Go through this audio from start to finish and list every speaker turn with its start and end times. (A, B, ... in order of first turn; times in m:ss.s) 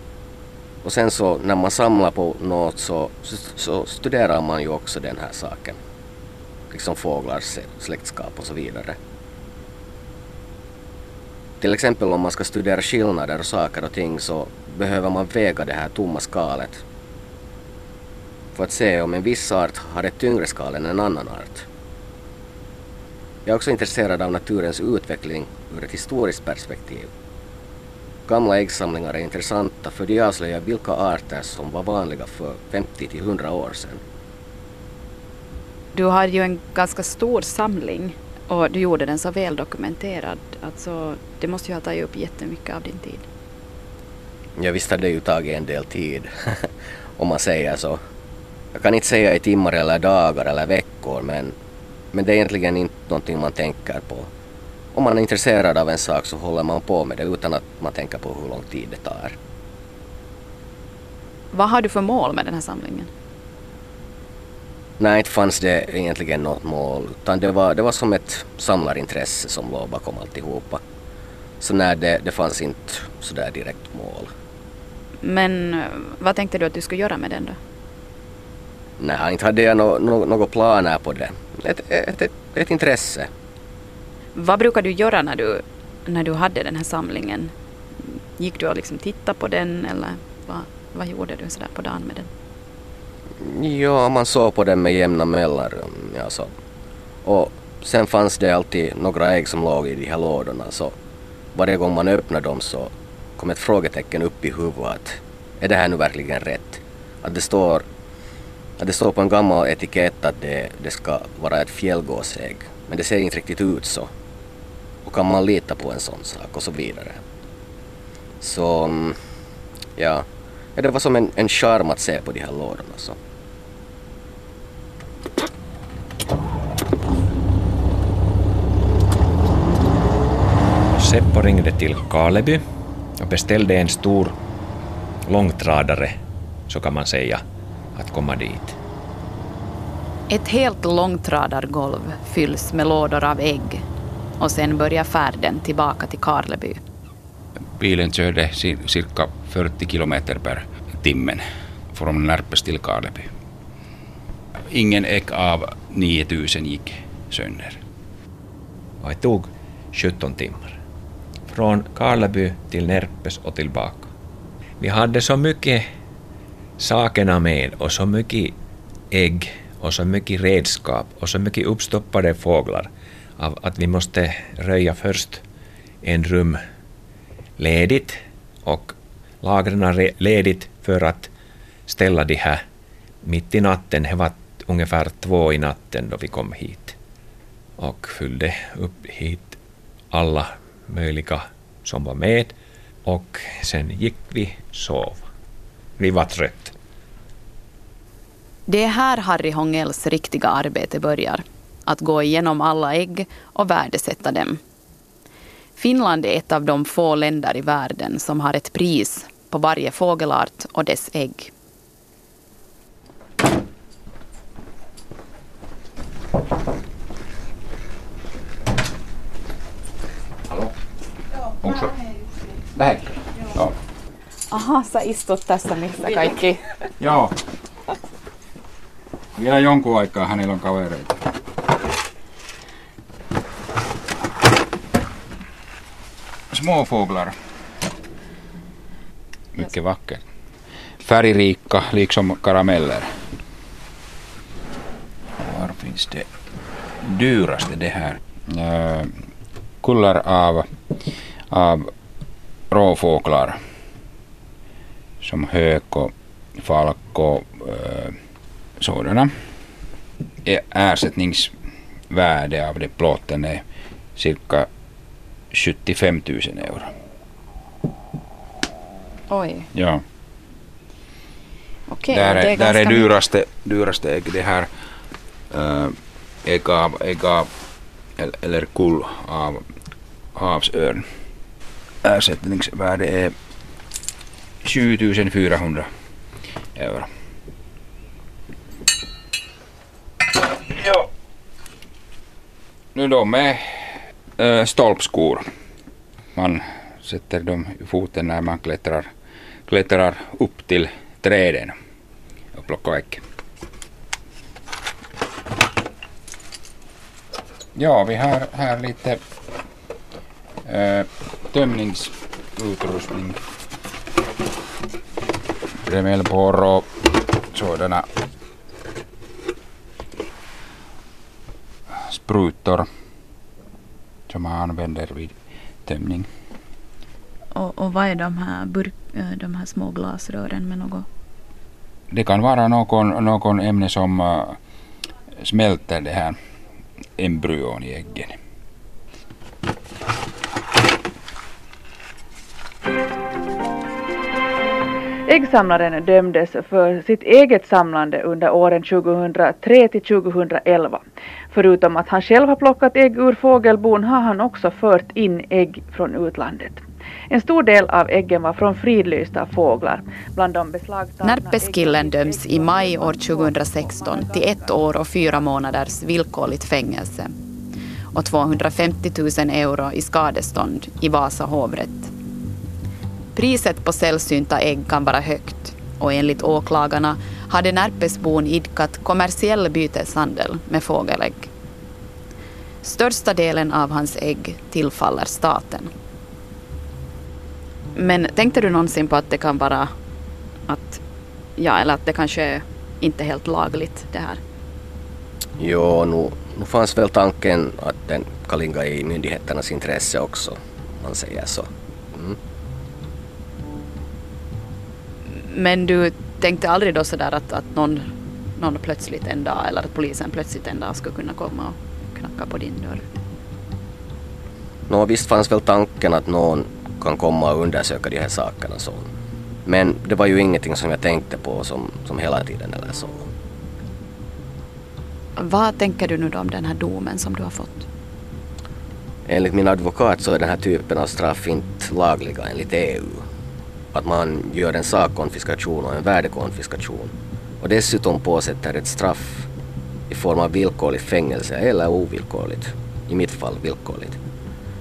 0:00.8-0:05.8 A
0:06.7-0:09.0 A
0:11.6-0:16.8 A
0:18.6-0:21.7 A
0:23.5-0:27.1 A
0:28.3-0:34.0 A
0:36.0-0:43.3 B
0:44.6-0:48.0 A
0:48.7-0:51.6 A
0:52.1-0:54.3 A
0:54.9-0:59.4 A
1:01.5-1:03.1 B
1:05.0-1:10.8 A
1:11.6-1:14.3 A
1:15.2-1:17.6 B
1:19.0-1:23.3 A
1:24.4-1:27.5 B
1:28.4-1:32.3 B
1:33.4-1:36.5 A
1:37.2-1:41.0 A
1:41.6-1:47.9 A
1:48.8-1:54.1 A
1:55.0-1:57.2 A
1:58.4-1:59.2 A
2:00.0-2:03.2 A
2:11.0-2:12.6 C
2:13.2-2:14.4 C
2:15.3-2:16.2 C
2:16.7-2:17.4 C
2:18.0-2:18.8 C
2:20.3-2:23.8 B
2:24.4-2:26.8 B
2:27.8-2:33.3 D
2:34.7-2:37.8 D
2:39.0-2:40.8 C
2:41.5-2:44.1 C
2:44.8-2:45.8 C
2:46.8-2:48.6 C
2:49.1-2:55.4 C
2:56.0-2:56.6 C
2:57.6-3:01.3 C
3:01.9-3:02.6 C
3:03.2-3:07.0 C
3:07.8-3:09.6 C
3:10.1-3:12.5 C
3:13.0-3:15.2 C
3:16.0-3:16.7 C
3:18.7-3:24.6 B
3:25.8-3:31.5 B
3:41.6-3:42.0 D
3:42.8-3:43.7 D
3:44.5-3:46.7 B
3:47.0-3:47.3 D
3:49.4-3:51.2 D
3:56.5-3:57.3 D
3:59.5-4:00.2 D
4:01.0-4:03.1 D
4:05.4-4:06.3 D
4:07.0-4:09.1 D
4:09.8-4:10.7 D
4:11.5-4:11.9 D
4:12.7-4:13.6 D
4:15.2-4:18.2 D
4:18.8-4:19.3 D
4:20.4-4:21.5 D
4:22.1-4:23.6 D
4:24.2-4:24.7 D
4:25.5-4:26.9 D
4:29.3-4:29.7 B
4:29.7-4:30.0 D
4:31.9-4:33.1 B
4:32.1-4:34.7 D
4:35.5-4:37.5 D
4:38.2-4:39.6 D
4:40.4-4:41.1 D
4:42.0-4:43.4 D
4:44.6-4:45.9 D
4:46.8-4:47.1 D
4:50.5-4:51.1 D
4:53.0-4:55.4 D
4:56.4-4:59.1 D
4:59.7-5:01.8 D
5:02.5-5:03.2 D
5:07.8-5:09.2 D
5:10.7-5:13.4 D
5:15.8-5:16.9 D
5:17.5-5:18.1 D
5:22.1-5:22.9 D
5:24.3-5:25.3 D
5:25.9-5:26.3 D
5:27.5-5:31.1 B
5:32.1-5:34.6 D
5:35.4-5:36.4 D
5:37.2-5:38.4 D
5:45.3-6:04.8 E
6:01.2-6:07.3 B
6:08.1-6:12.1 B
6:13.4-6:21.5 B
6:22.8-6:25.9 B
6:28.0-6:29.9 B
6:30.7-6:31.0 B
6:31.6-6:34.4 B
6:35.6-6:42.4 A
6:45.3-6:53.1 B
6:54.9-6:59.1 A
6:59.7-7:03.3 A
7:05.4-7:07.9 B
7:09.3-7:13.3 A
7:13.9-7:19.5 A
7:20.1-7:24.2 A